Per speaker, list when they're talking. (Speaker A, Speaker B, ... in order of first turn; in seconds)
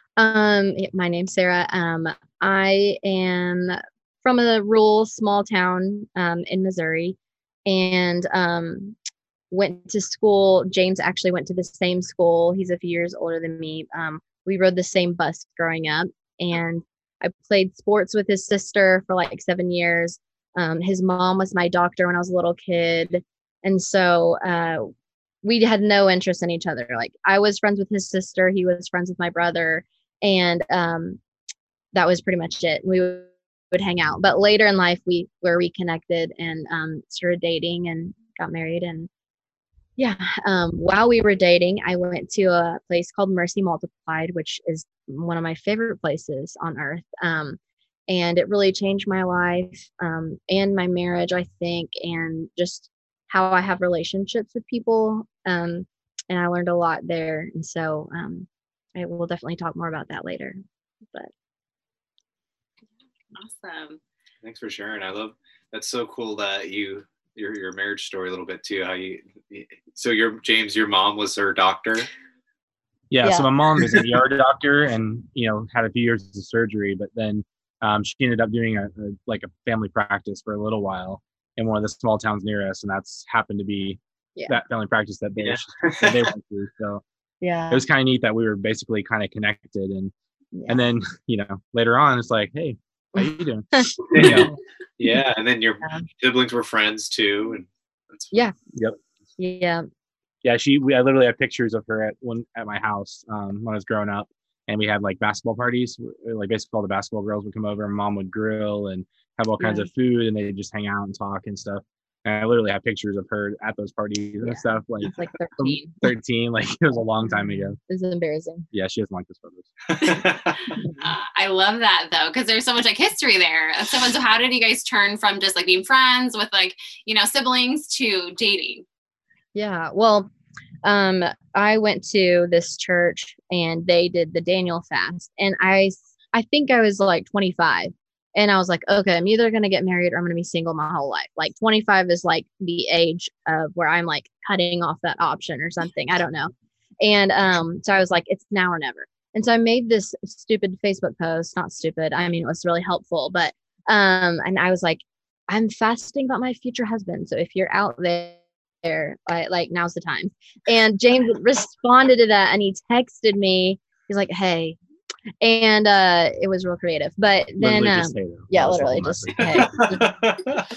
Speaker A: 0.2-8.9, 9.5-24.9, 25.4-31.2, 31.9-39.1, 40.0-60.6, 73.2-73.5, 87.4-87.8, 90.5-90.8, 93.2-94.5, 99.4-99.8, 109.6-109.9, 114.4-116.0, 117.3-118.7, 129.6-130.3, 130.8-164.8, 165.4-170.1
Speaker B: 63.3-64.0, 120.8-128.8
Speaker C: 64.4-72.1, 85.4-86.3, 94.1-98.4, 120.0-120.6, 169.4-170.6
Speaker D: 73.1-87.0, 87.7-90.1, 90.7-94.5, 100.4-117.8, 118.7-120.0, 167.6-169.9